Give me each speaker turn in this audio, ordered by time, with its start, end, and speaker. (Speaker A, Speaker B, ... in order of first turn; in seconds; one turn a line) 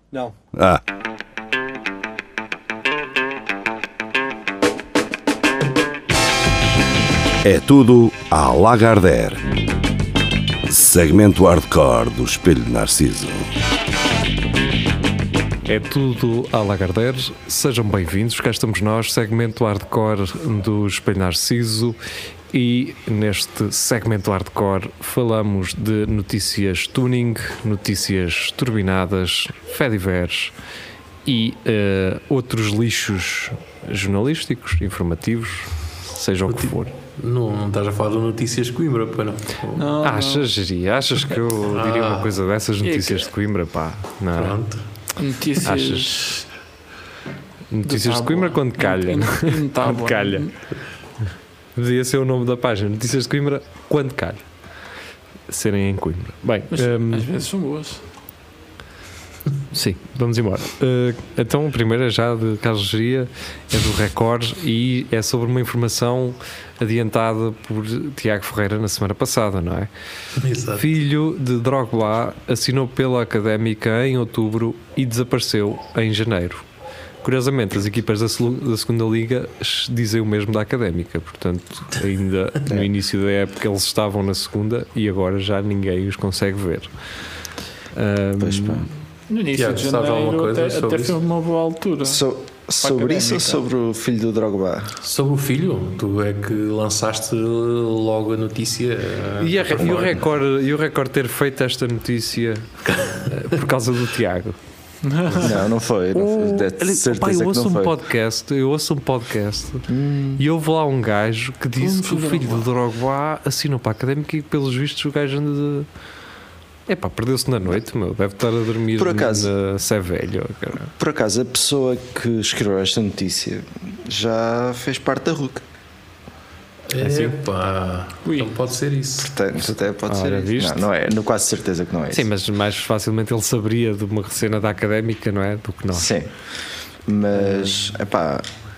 Speaker A: 0.4-0.8
Speaker A: 7.4-9.4
Speaker A: 10.7-13.5
Speaker B: 15.7-22.0
Speaker B: 22.5-30.5
Speaker B: 31.2-36.9
Speaker C: 36.5-40.0
Speaker D: 39.8-40.5
Speaker B: 40.0-44.6
Speaker C: 41.6-42.4
Speaker D: 42.8-43.3
Speaker C: 44.4-44.8
Speaker D: 45.2-46.5
Speaker B: 45.6-46.2
Speaker B: 47.7-50.5
Speaker D: 47.8-50.5
Speaker B: 51.8-54.4
Speaker B: 55.5-57.3
Speaker D: 56.7-58.0
Speaker B: 59.7-69.9
Speaker C: 70.4-70.9
Speaker B: 70.8-76.7
Speaker B: 77.2-86.9
Speaker B: 87.9-88.9
Speaker E: 88.4-88.9
Speaker D: 89.3-92.2
Speaker C: 89.6-91.2
Speaker E: 92.0-95.0
Speaker D: 92.8-93.6
Speaker C: 95.0-100.2
Speaker B: 99.4-104.6
Speaker E: 99.8-100.2
Speaker D: 105.0-105.6
Speaker B: 105.3-105.6
Speaker E: 105.4-108.0
Speaker B: 106.1-109.9
Speaker E: 109.9-110.4
Speaker B: 110.4-115.9
Speaker D: 111.8-112.7
Speaker B: 116.9-120.9
Speaker E: 119.0-119.5
Speaker E: 121.0-125.6
Speaker C: 126.9-129.3
Speaker B: 127.0-127.3
Speaker D: 128.2-128.5
Speaker E: 129.2-132.3
Speaker B: 130.1-130.8
Speaker B: 132.1-136.1
Speaker E: 135.9-136.3
Speaker E: 137.1-138.5